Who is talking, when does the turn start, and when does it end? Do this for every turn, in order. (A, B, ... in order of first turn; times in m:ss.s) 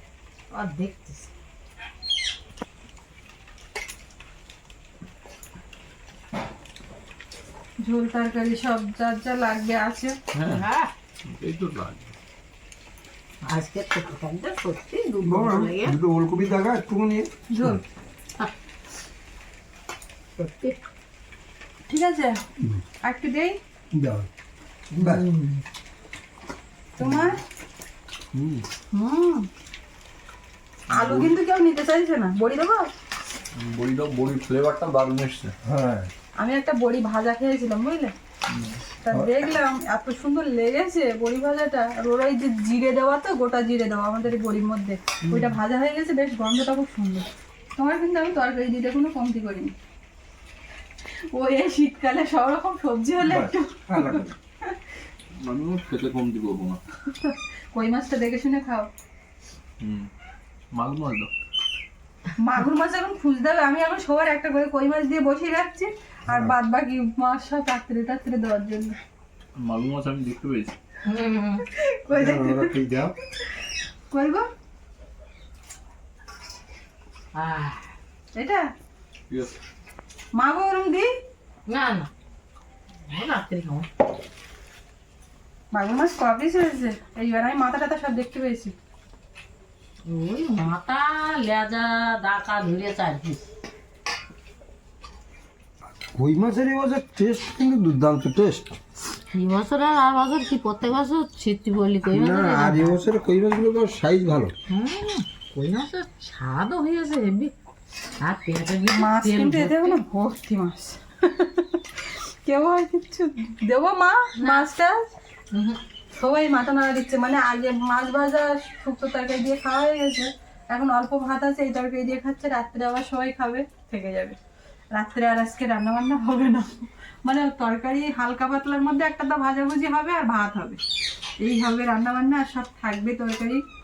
0:00.5-0:01.3 A
0:07.8-0:10.2 B
0:10.3-0:10.6 C
0:10.5-0:10.9 A
0:11.2-0:12.1 C
0:13.4-0:16.0 A
0:15.2-0:17.8 D
0:17.5-0:17.8 B
0:20.4-0:20.8 A
0:21.9-0:22.4 B
0:23.0-0:23.6 B
0:23.9-0:24.3 D
0:24.9-0:25.3 D
0:25.0-0:25.6 A
0:27.0-0:27.4 B
0:28.9-0:29.5 B
0:30.9-0:31.3 C
0:30.9-0:32.9 B
0:33.5-0:35.5 C
0:35.6-0:36.1 D
0:36.4-0:38.1 B
0:38.5-0:38.8 C
0:39.0-0:47.3 B
0:45.2-0:45.5 D
0:47.8-0:49.7 B
0:51.3-0:54.8 B
0:53.2-0:54.4 D
0:55.4-0:56.8 C
0:57.1-0:58.9 B
0:59.8-1:00.1 C
1:00.7-1:01.3 C
1:02.4-1:09.0 B
1:06.3-1:06.5 D
1:09.6-1:10.8 C
1:11.0-1:11.6 A
1:11.7-1:12.7 B
1:12.1-1:13.1 D
1:14.1-1:14.4 B
1:17.3-1:17.9 A
1:18.3-1:18.6 B
1:19.3-1:19.5 C
1:20.3-1:21.1 B
1:21.7-1:22.1 A
1:23.1-1:23.9 A
1:25.7-1:28.7 B
1:30.0-1:33.4 A
1:36.1-1:38.8 D
1:39.3-1:43.0 A
1:42.1-1:44.5 D
1:44.7-1:47.5 A
1:48.2-1:50.0 A
1:48.9-1:55.1 B
1:54.4-1:54.6 A
1:55.5-1:55.8 A
1:56.2-2:04.4 B
2:04.9-2:10.8 B
2:11.4-2:13.6 B